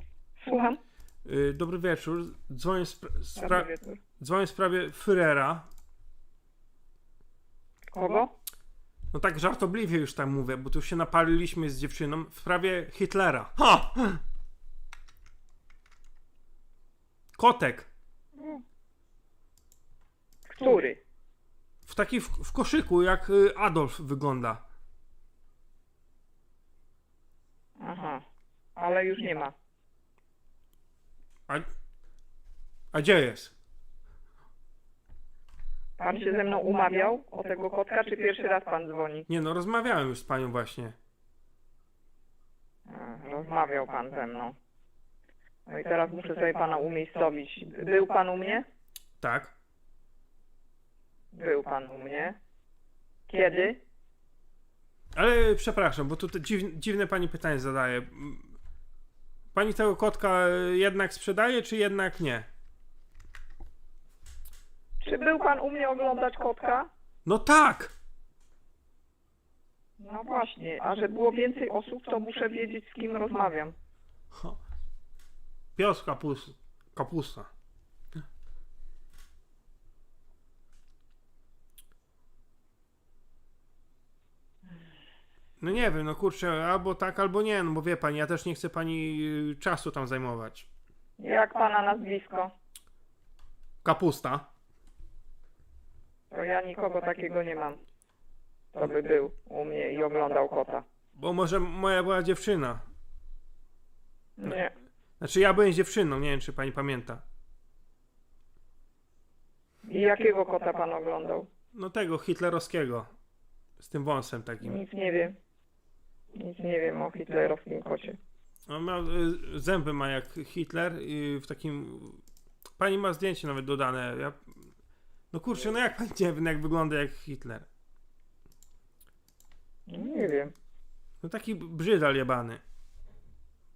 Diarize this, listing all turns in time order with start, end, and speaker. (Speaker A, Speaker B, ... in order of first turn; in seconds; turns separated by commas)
Speaker A: 0.4-0.8, Speaker B: 1.2-5.7, Speaker A: 3.4-4.0, Speaker A: 7.9-8.3, Speaker B: 9.1-14.2, Speaker B: 17.4-17.9, Speaker A: 18.4-18.6, Speaker A: 20.5-21.0, Speaker B: 21.8-24.6, Speaker A: 27.8-28.2, Speaker A: 28.8-29.5, Speaker B: 32.9-33.5, Speaker A: 36.0-39.2, Speaker B: 39.3-40.9, Speaker A: 42.9-44.5, Speaker A: 45.7-48.6, Speaker B: 49.2-49.5, Speaker A: 51.3-52.4, Speaker A: 53.3-53.8, Speaker B: 55.1-58.5, Speaker B: 59.5-62.5, Speaker A: 65.0-66.9, Speaker B: 67.2-67.9, Speaker A: 70.0-73.7, Speaker B: 74.3-74.6, Speaker B: 75.8-77.5, Speaker B: 85.6-90.7, Speaker A: 91.2-92.5, Speaker B: 93.8-94.5, Speaker A: 96.3-97.8, Speaker A: 98.7-100.8, Speaker B: 101.2-102.8, Speaker A: 104.4-104.7, Speaker B: 105.2-107.2, Speaker A: 109.8-111.5, Speaker B: 111.7-113.1, Speaker B: 113.8-114.8, Speaker A: 114.6-115.3, Speaker A: 116.3-118.2, Speaker B: 118.7-122.2, Speaker B: 122.8-124.6, Speaker B: 125.3-127.7, Speaker A: 129.9-130.5, Speaker B: 131.2-132.6